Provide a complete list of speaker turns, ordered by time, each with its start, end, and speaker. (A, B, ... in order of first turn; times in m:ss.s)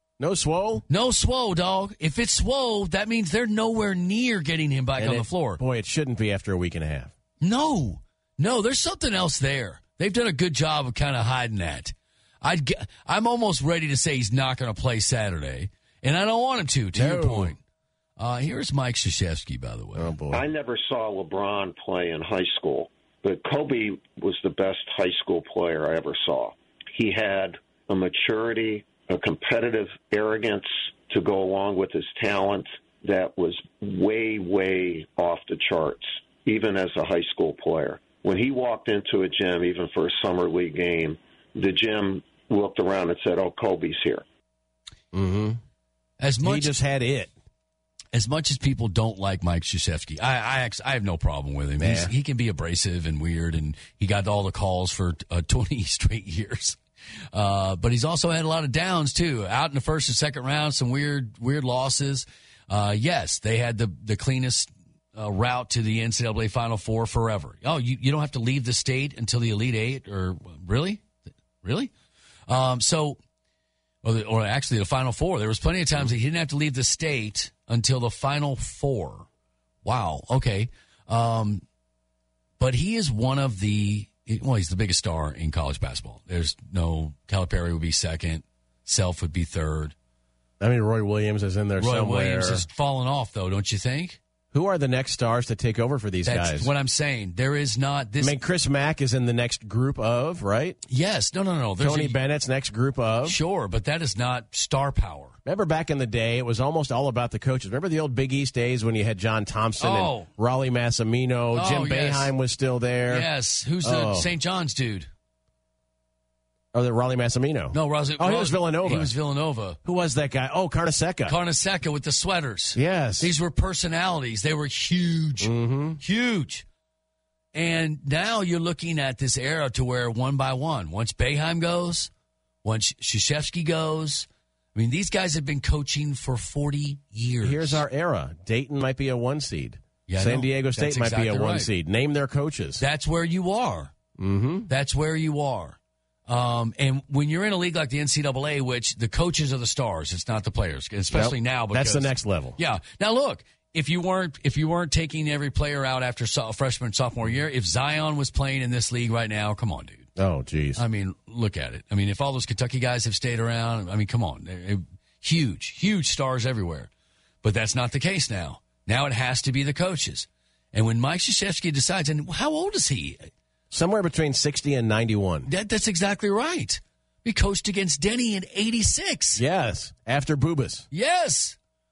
0:00.2-0:00.8 A
0:00.9-0:05.6 B
0:05.0-0:07.1 A
0:07.4-0:17.6 B
0:16.9-0:17.5 A
0:18.2-0:20.1 B
0:19.9-0:20.5 A
0:20.3-0:44.2 C
0:45.1-0:45.6 A
0:46.2-0:46.8 B
0:46.4-0:47.3 A
0:48.1-0:56.8 B
0:51.8-0:52.1 A
0:57.3-1:11.0 B
1:11.6-1:11.9 B
1:12.5-1:13.2 B
1:14.0-1:19.2 B
1:19.8-1:21.6 B
1:22.6-1:29.9 B
1:30.6-1:32.6 A
1:31.8-1:34.2 B
1:34.5-1:36.7 A
1:36.2-1:38.4 B
1:38.2-1:40.8 A
1:40.9-1:42.2 B
1:41.8-1:43.4 A
1:43.2-1:45.4 B
1:45.4-1:53.3 A
1:49.8-1:50.3 B
1:51.5-1:52.3 B
1:53.1-1:55.1 B
1:53.8-1:54.3 A
1:56.7-1:59.1 A
1:57.7-1:59.8 B
1:59.8-2:01.4 A
2:01.2-2:06.6 B
2:02.8-2:03.3 A
2:05.4-2:06.0 A
2:07.5-2:12.1 B
2:12.6-2:17.8 B
2:17.4-2:22.8 A
2:20.1-2:21.7 B
2:22.8-2:23.9 B
2:24.2-2:24.7 A
2:24.7-2:40.1 B
2:31.1-2:32.6 A
2:40.2-2:40.8 A
2:40.8-2:46.9 B
2:47.4-2:53.3 B
2:53.7-2:55.5 A
2:55.4-2:59.4 B
2:59.4-3:00.9 A
3:00.9-3:01.6 B